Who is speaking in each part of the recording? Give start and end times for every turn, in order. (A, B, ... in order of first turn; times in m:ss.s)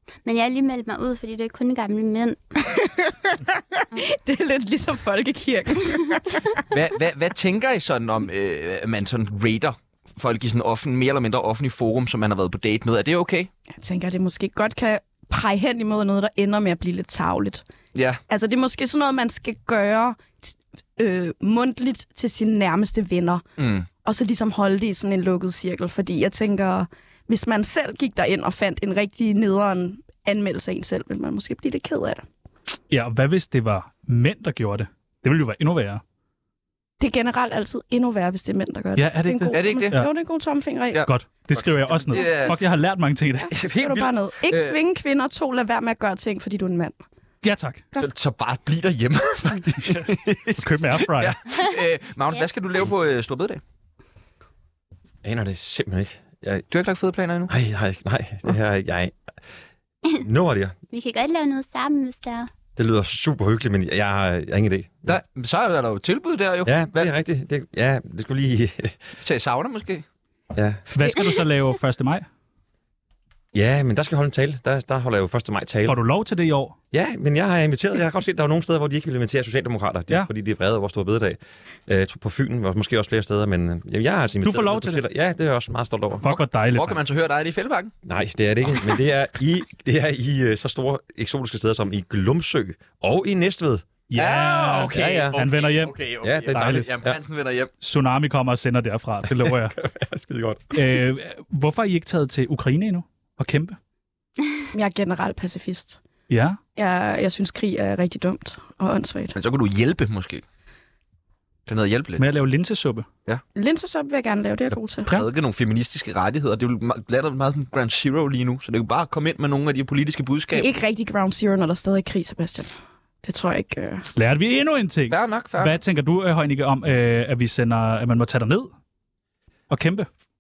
0:00.2-0:02.4 A
0:02.6-0:06.6 B
0:06.7-0:13.5 C
0:13.7-0:17.6 B
0:17.9-0:18.2 C
0:18.3-0:23.4 B
0:23.6-0:23.9 C
0:24.0-0:32.2 B
0:32.9-0:36.0 D
0:37.0-0:41.1 B
0:39.0-0:40.1 D
0:39.5-0:40.0 C
0:40.9-0:42.6 C
0:41.0-0:43.5 D
0:42.1-0:42.6 B
0:43.5-0:44.8 C
0:43.6-0:47.0 B
0:47.4-0:47.9 D
0:48.0-0:53.6 C
0:50.6-0:51.4 D
0:55.2-0:56.6 E
0:56.7-0:57.5 C
0:57.5-0:59.2 E
1:00.2-1:00.8 E
1:00.9-1:02.5 A
1:02.8-1:05.2 E
1:05.1-1:07.1 C
1:06.7-1:09.0 E
1:09.2-1:10.0 C
1:10.6-1:10.8 E
1:10.9-1:12.3 D
1:13.5-1:16.0 E
1:15.9-1:16.8 D
1:16.9-1:26.3 E
1:24.4-1:25.0 D
1:26.2-1:27.0 D
1:26.7-1:27.9 C
1:28.1-1:33.9 E
1:34.1-1:36.0 D
1:34.2-1:37.7 C
1:34.9-1:35.4 E
1:36.2-1:37.2 E
1:36.5-1:36.9 D
1:37.8-1:39.8 D
1:39.3-1:40.8 E
1:40.7-1:43.8 D
1:44.7-1:46.0 B
1:46.3-1:46.6 D
1:46.8-1:49.4 B
1:49.3-1:50.4 C
1:51.7-1:52.2 C
1:52.2-1:53.1 D
1:53.6-1:55.1 B
1:55.1-2:00.7 C
2:00.5-2:04.1 B
2:04.2-2:08.7 D
2:05.1-2:05.8 C
2:09.7-2:10.1 D